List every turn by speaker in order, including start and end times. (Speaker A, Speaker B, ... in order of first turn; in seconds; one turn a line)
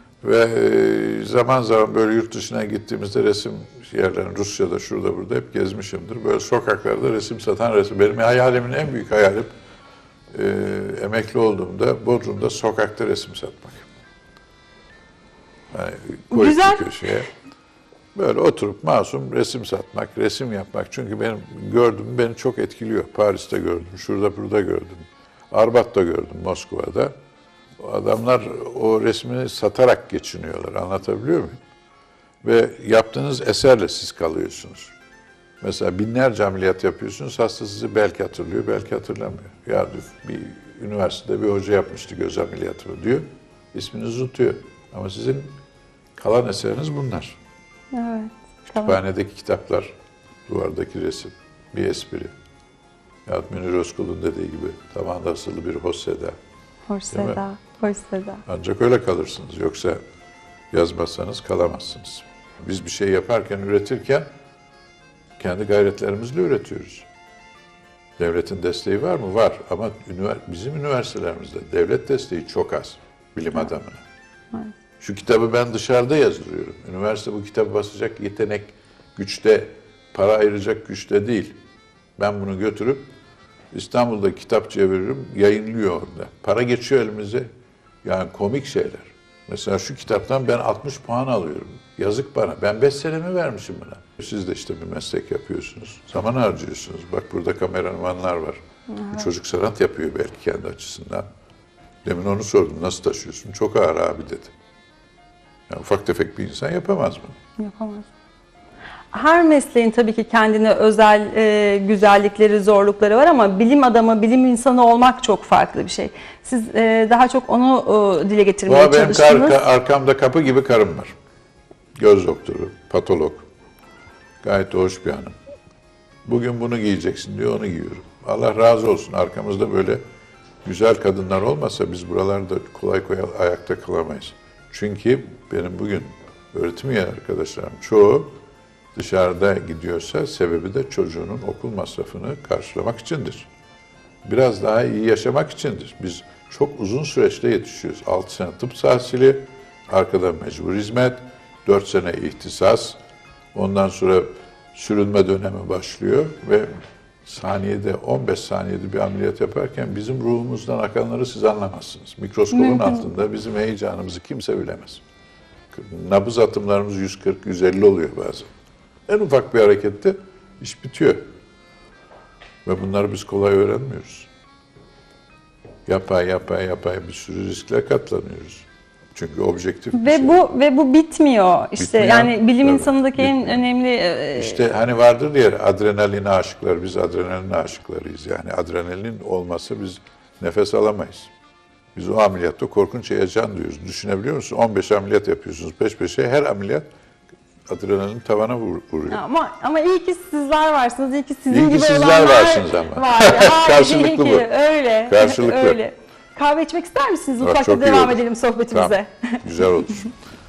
Speaker A: 0.2-9.5
Speaker A: 10.3-13.9
Speaker A: 15.7-17.3
Speaker B: 16.3-16.9
Speaker A: 18.1-27.1
Speaker A: 27.8-31.6
Speaker A: 32.4-34.9
Speaker A: 35.6-45.5
Speaker A: 46.2-47.4
Speaker B: 47.9-49.0
Speaker A: 48.7-49.9
Speaker A: 50.5-52.3
Speaker A: 53.3-56.4
Speaker B: 56.9-58.4
Speaker A: 57.1-57.4
Speaker A: 58.5-60.0
Speaker A: 60.7-64.3
Speaker A: 65.4-67.1
Speaker A: 68.2-74.0
Speaker A: 75.0-81.6
Speaker A: 82.2-83.1
Speaker A: 83.7-87.5
Speaker A: 88.0-98.6
Speaker B: 99.0-99.3
Speaker A: 99.1-101.3
Speaker A: 102.0-104.5
Speaker A: 105.7-107.4
Speaker B: 107.6-108.1
Speaker B: 109.1-119.6
Speaker A: 118.7-121.2
Speaker A: 122.0-123.4
Speaker A: 124.4-125.3
Speaker A: 126.3-130.0
Speaker A: 130.7-138.3
Speaker A: 138.9-143.5
Speaker A: 144.2-153.0
Speaker A: 153.5-156.7
Speaker A: 157.3-165.0
Speaker B: 162.5-163.1
Speaker A: 165.7-168.5
Speaker A: 169.1-171.2
Speaker A: 172.7-174.3
Speaker A: 175.9-180.4
Speaker B: 179.9-184.6
Speaker A: 181.8-183.6
Speaker A: 184.3-191.3
Speaker A: 191.9-196.9
Speaker A: 197.7-199.2
Speaker B: 199.1-209.4
Speaker A: 201.5-204.5
Speaker A: 205.1-205.8
Speaker A: 207.4-210.1